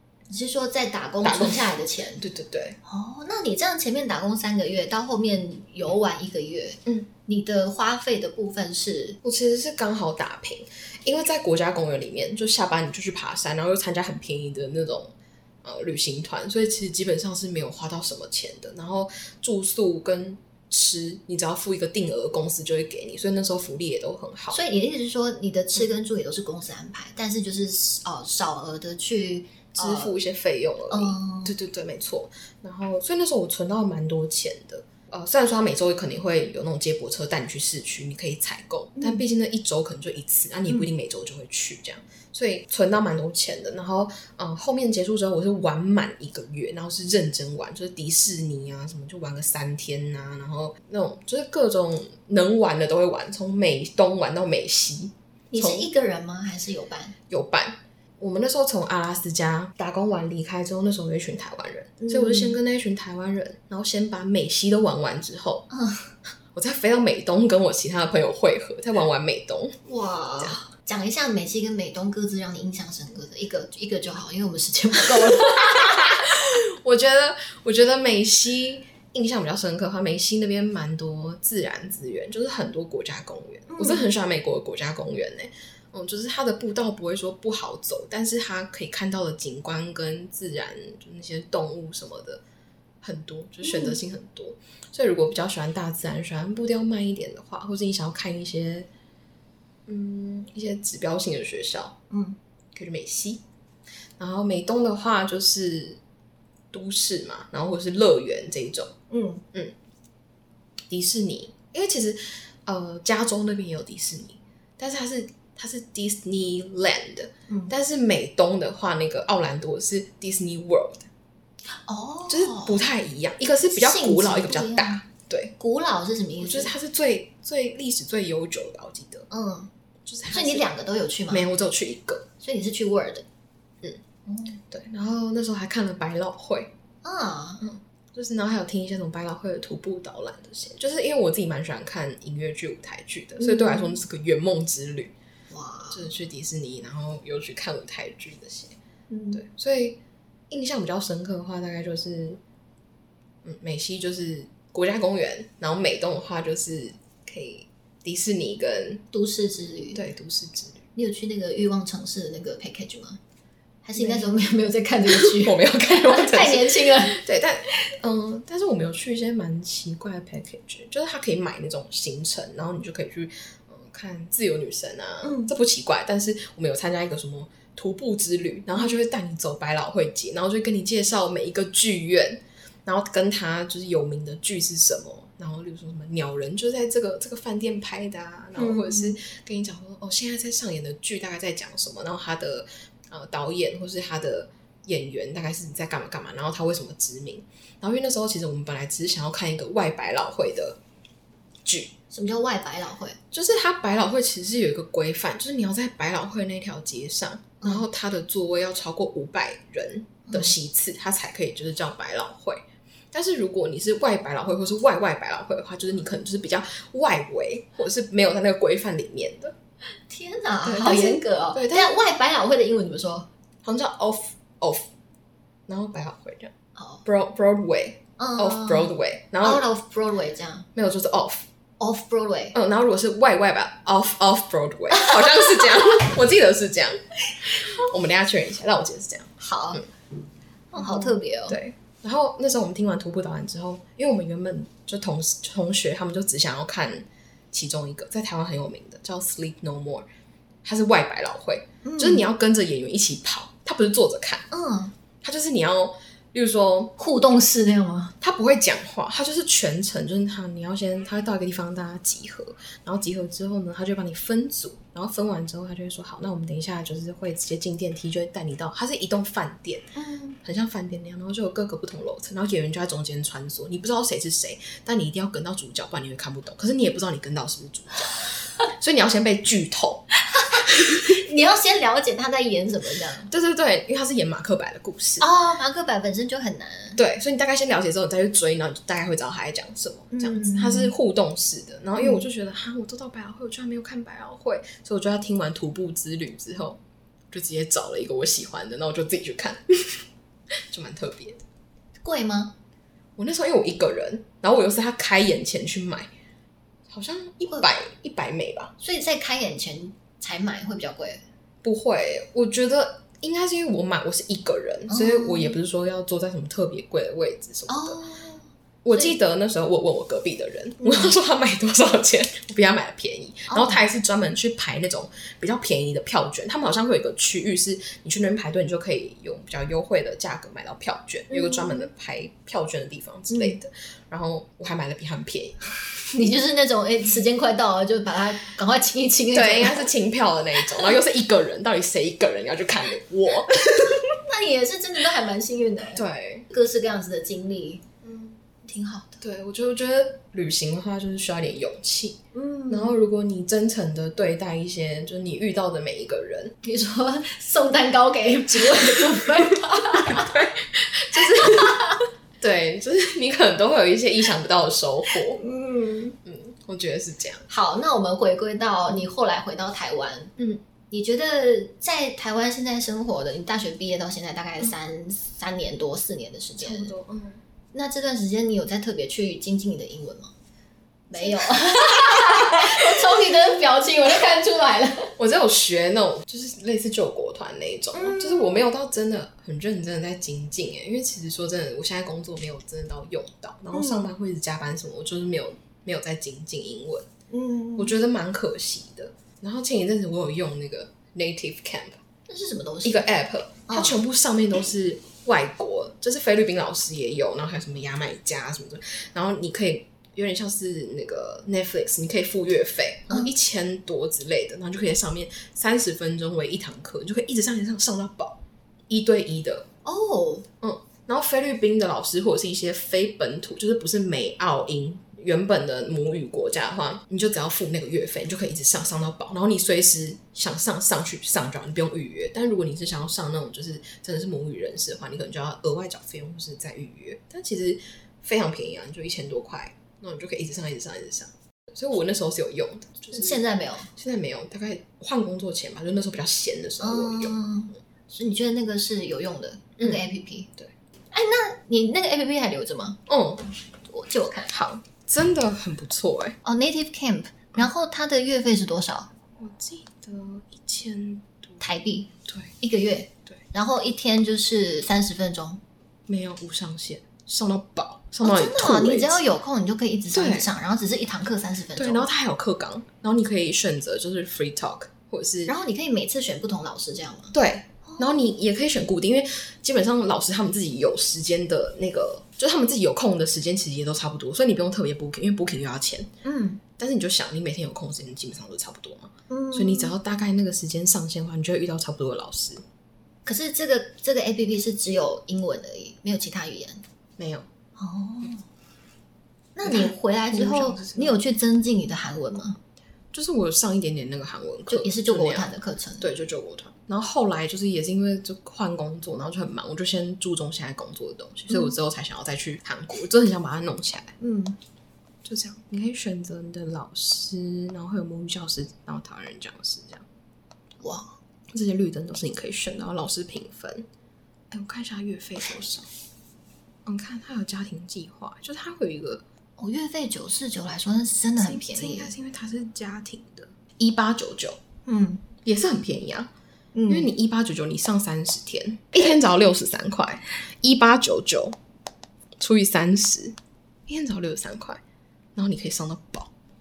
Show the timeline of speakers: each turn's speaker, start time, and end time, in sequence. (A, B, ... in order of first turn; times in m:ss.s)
0:00.3-0:02.2 A
0:01.2-0:02.8 B
0:02.8-0:09.2 A
0:09.2-0:24.6 B
0:24.5-0:30.2 A
0:29.7-0:55.9 B
0:30.9-0:31.5 A
0:39.0-0:39.2 A
0:55.5-0:57.2 A
0:57.3-1:05.7 B
1:02.0-1:02.6 A
1:05.7-1:06.1 A
1:06.5-1:09.8 B
1:09.8-1:16.2 A
1:15.3-1:32.4 B
1:23.7-1:24.1 A
1:33.0-1:38.9 B
1:33.6-1:34.0 A
1:39.9-1:42.0 B
1:42.1-1:42.4 A
1:42.7-1:43.4 B
1:44.2-1:46.0 B
1:46.7-1:48.9 B
1:49.1-1:49.4 A
1:50.9-2:01.1 B
1:57.5-1:57.7 A
2:01.7-2:02.8 A
2:02.3-2:05.5 B
2:03.7-2:05.0 A
2:05.6-2:06.7 A
2:06.4-2:09.3 B
2:09.3-2:09.7 A
2:10.0-2:10.7 B
2:10.3-2:11.5 A
2:11.3-2:12.3 B
2:12.4-2:13.2 A
2:14.2-2:14.6 A
2:14.7-2:16.7 B
2:17.0-2:17.7 A
2:17.6-2:25.1 B
2:23.4-2:24.0 A
2:25.5-2:26.1 A
2:25.9-2:28.8 B
2:29.1-2:29.4 A
2:29.3-2:30.0 B
2:30.5-2:32.4 B
2:33.4-2:39.0 B
2:39.1-2:40.0 A
2:39.9-2:40.8 B
2:41.0-2:43.2 A
2:43.8-2:47.2 A
2:43.9-2:44.4 B
2:45.0-3:20.8 B
2:55.2-2:55.5 A
3:08.6-3:09.2 A
3:21.6-3:21.9 B
3:22.1-3:23.2 A
3:23.3-3:39.5 B
3:30.3-3:30.5 A
3:40.1-3:43.3 A
3:40.6-3:41.9 B
3:43.6-3:44.9 B
3:45.7-3:46.5 B
3:46.8-3:47.0 A
3:47.0-3:49.7 B
3:48.2-3:50.7 A
3:50.7-3:51.5 B
3:51.8-3:52.6 A
3:52.5-3:59.8 B
3:59.4-3:59.8 A
4:00.7-4:01.6 A
4:00.8-4:10.1 B
4:10.6-4:14.5 B
4:11.8-4:12.2 A
4:14.5-4:14.9 A
4:15.2-4:16.9 B
4:17.0-4:18.1 A
4:18.2-4:41.2 B
4:29.9-4:30.4 A
4:40.3-4:43.3 A
4:43.3-4:45.3 B
4:45.2-4:47.0 A
4:47.0-4:56.8 B
4:50.1-4:50.9 A
4:52.0-4:52.2 A
4:57.3-5:00.0 B
5:00.7-5:01.4 B
5:02.0-5:02.5 A
5:03.2-5:06.1 B
5:06.9-5:08.7 B
5:08.8-5:11.2 A
5:11.6-5:18.0 B
5:14.9-5:15.6 A
5:17.7-5:19.1 A
5:18.8-5:36.3 B
5:20.8-5:21.1 A
5:23.5-5:23.8 A
5:31.3-5:31.9 A
5:33.3-5:33.6 A
5:36.1-5:39.9 A
5:39.3-5:44.1 B
5:44.1-5:47.8 A
5:45.9-5:46.5 B
5:48.0-5:48.4 B
5:48.6-5:49.2 A
5:49.2-5:56.5 B
5:52.3-5:53.0 A
5:56.6-6:00.3 A
5:58.6-5:59.3 B
6:00.0-6:01.8 B
6:01.2-6:02.0 A
6:02.4-6:05.4 B
6:05.4-6:06.2 A
6:06.2-6:07.4 B
6:07.5-6:10.3 A
6:10.9-6:16.9 A
6:16.6-6:17.4 B
6:17.7-6:20.3 A
6:21.1-6:25.1 A
6:21.2-6:23.1 B
6:25.2-6:37.1 B
6:27.9-6:28.6 A
6:33.7-6:34.1 A
6:37.3-6:38.0 A
6:37.8-6:42.0 B
6:42.3-6:43.1 A
6:42.8-6:59.7 B
6:43.7-6:44.0 A
6:59.8-7:00.5 A
7:00.6-7:23.4 B
7:23.1-7:23.9 A
7:23.9-7:27.4 B
7:26.8-7:30.5 A
7:29.8-7:30.0 B
7:31.1-7:33.0 A
7:33.1-7:33.4 B
7:33.9-7:34.5 A
7:34.5-7:36.4 B
7:36.4-7:39.1 A
7:39.4-7:41.6 B
7:41.6-7:45.6 A
7:42.3-7:42.5 B
7:46.1-7:49.2 B
7:48.2-7:52.1 A
7:50.1-7:50.5 B
7:51.8-7:55.5 B
7:55.5-7:58.3 A
7:57.3-8:06.1 B
8:06.2-8:06.6 A
8:06.8-8:12.6 B
8:09.3-8:09.9 A
8:13.2-8:16.8 A
8:17.2-8:17.5 B
8:17.8-8:18.4 A
8:19.5-8:22.6 A
8:19.6-8:21.2 B
8:23.1-8:25.5 B
8:24.7-8:26.1 A
8:26.0-8:34.1 B
8:34.2-8:34.6 A
8:35.2-8:40.0 B
8:40.8-8:41.2 A
8:41.5-8:43.9 B
8:44.5-8:45.9 B
8:46.8-8:49.2 B
8:49.6-8:52.1 A
8:51.4-8:54.6 B
8:54.8-8:55.2 A
8:55.4-8:56.3 B
8:56.7-8:57.1 A
8:56.9-9:01.6 B
9:02.4-9:04.8 B
9:05.4-9:06.3 B